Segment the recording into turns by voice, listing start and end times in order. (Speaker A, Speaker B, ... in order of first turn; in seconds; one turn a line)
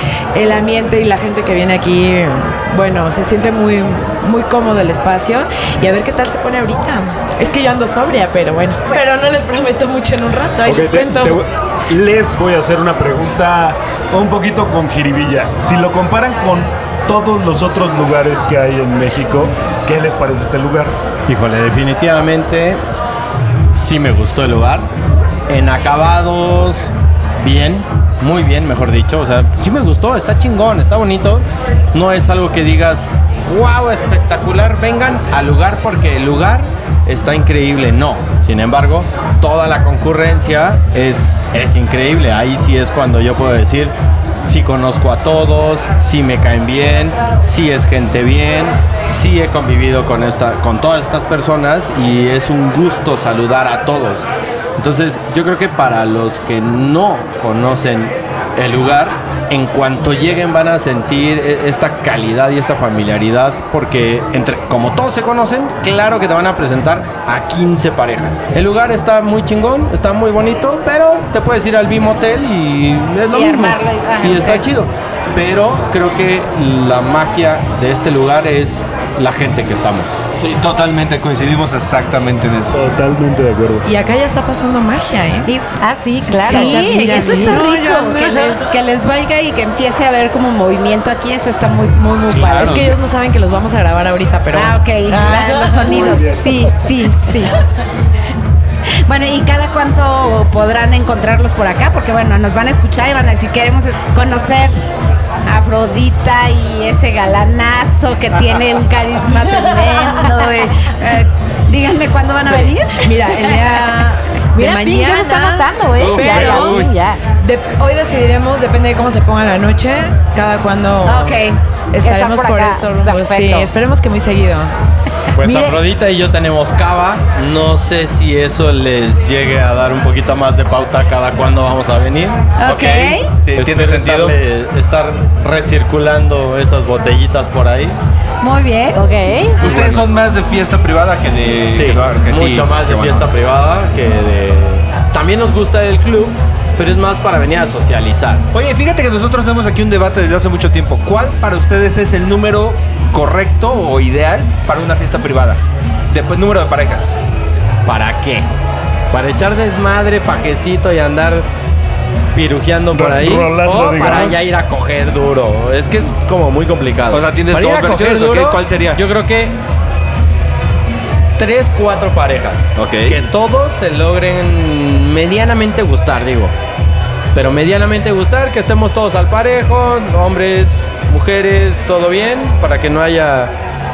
Speaker A: 0.3-11.4
Speaker B: 10.7-21.0
Speaker C: 21.3-22.8
Speaker C: 23.7-24.9
Speaker C: 25.5-80.2
Speaker D: 73.3-74.7
Speaker E: 80.4-82.8
Speaker B: 82.7-83.9
Speaker A: 83.8-85.5
Speaker F: 85.7-87.7
Speaker A: 86.3-88.7
Speaker D: 86.4-92.8
Speaker E: 92.3-93.0
Speaker A: 92.5-96.4
Speaker D: 94.5-97.5
Speaker B: 95.8-96.5
Speaker D: 99.1-104.7
Speaker D: 105.5-113.7
Speaker A: 112.5-116.9
Speaker F: 114.5-117.2
Speaker E: 116.0-116.9
Speaker A: 117.4-124.7
Speaker D: 121.0-121.6
Speaker F: 122.0-123.7
Speaker C: 125.4-138.0
Speaker A: 125.5-125.8
Speaker D: 132.6-133.3
Speaker E: 132.7-134.4
Speaker D: 138.4-139.0
Speaker F: 138.9-139.8
Speaker E: 139.6-143.3
Speaker C: 139.6-140.1
Speaker C: 141.6-148.5
Speaker E: 148.5-157.2
Speaker C: 157.9-158.5
Speaker C: 159.1-161.5
Speaker C: 162.3-169.6
Speaker B: 162.9-164.4
Speaker E: 167.1-169.0
Speaker C: 171.4-176.5
Speaker E: 172.8-173.2
Speaker C: 177.3-183.5